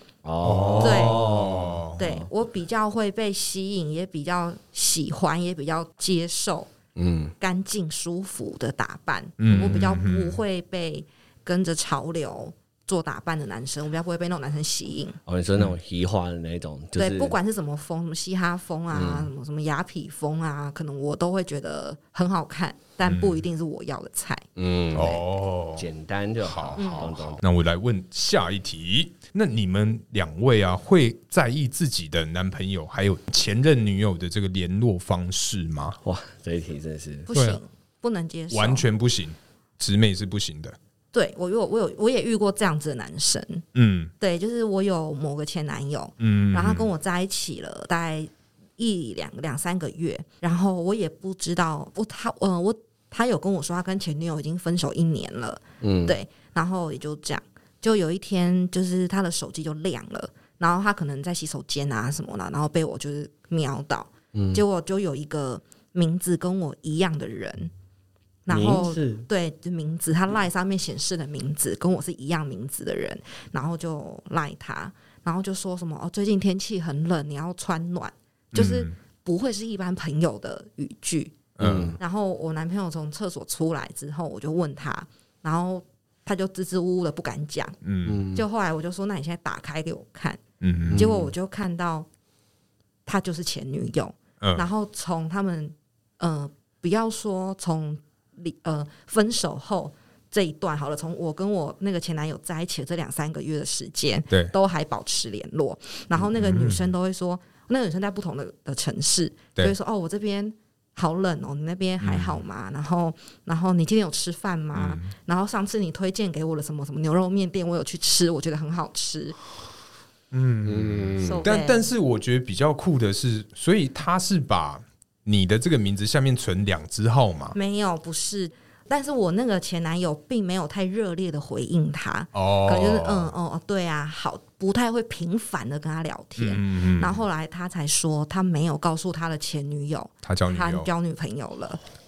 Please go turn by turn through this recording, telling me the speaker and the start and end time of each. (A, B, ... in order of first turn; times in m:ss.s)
0:00.2-0:02.2 A
0:00.4-0:02.0 B
0:00.8-0:01.3 C
0:02.0-0:06.7 C
0:07.0-0:07.3 A
0:07.4-0:15.2 C
0:09.4-0:10.4 B
0:15.3-0:17.4 A
0:17.0-0:24.4 C
0:18.9-0:19.3 A
0:23.0-0:23.4 B
0:24.6-0:25.2 A
0:24.9-0:25.9 B
0:25.8-0:27.4 A
0:26.4-0:36.0 B
0:26.8-0:27.1 C
0:36.0-0:37.3 A
0:37.3-0:38.8 C
0:37.3-0:37.6 B
0:38.5-0:40.8 B
0:41.1-0:43.6 C
0:43.7-0:44.1 B
0:44.2-1:07.7 C
0:46.2-0:46.9 B
0:55.8-0:56.2 A
1:04.3-1:04.6 A
1:08.4-1:21.4 C
1:08.5-1:09.3 A
1:18.5-1:18.9 B
1:21.6-1:22.0 B
1:21.6-1:22.0 A
1:22.0-1:27.8 C
1:27.8-1:28.2 B
1:28.1-1:28.4 A
1:28.3-1:30.4 C
1:30.6-1:31.0 B
1:30.9-1:31.3 A
1:30.9-1:32.1 C
1:33.0-1:59.4 C
1:34.4-1:34.7 B
1:46.3-1:46.9 B
1:52.0-1:52.4 B
1:54.7-1:55.1 B
2:00.3-2:07.6 B
2:00.7-2:01.4 A
2:01.3-2:01.9 C
2:07.5-2:21.8 C
2:12.3-2:13.3 B
2:16.4-2:17.2 B
2:20.2-2:20.9 B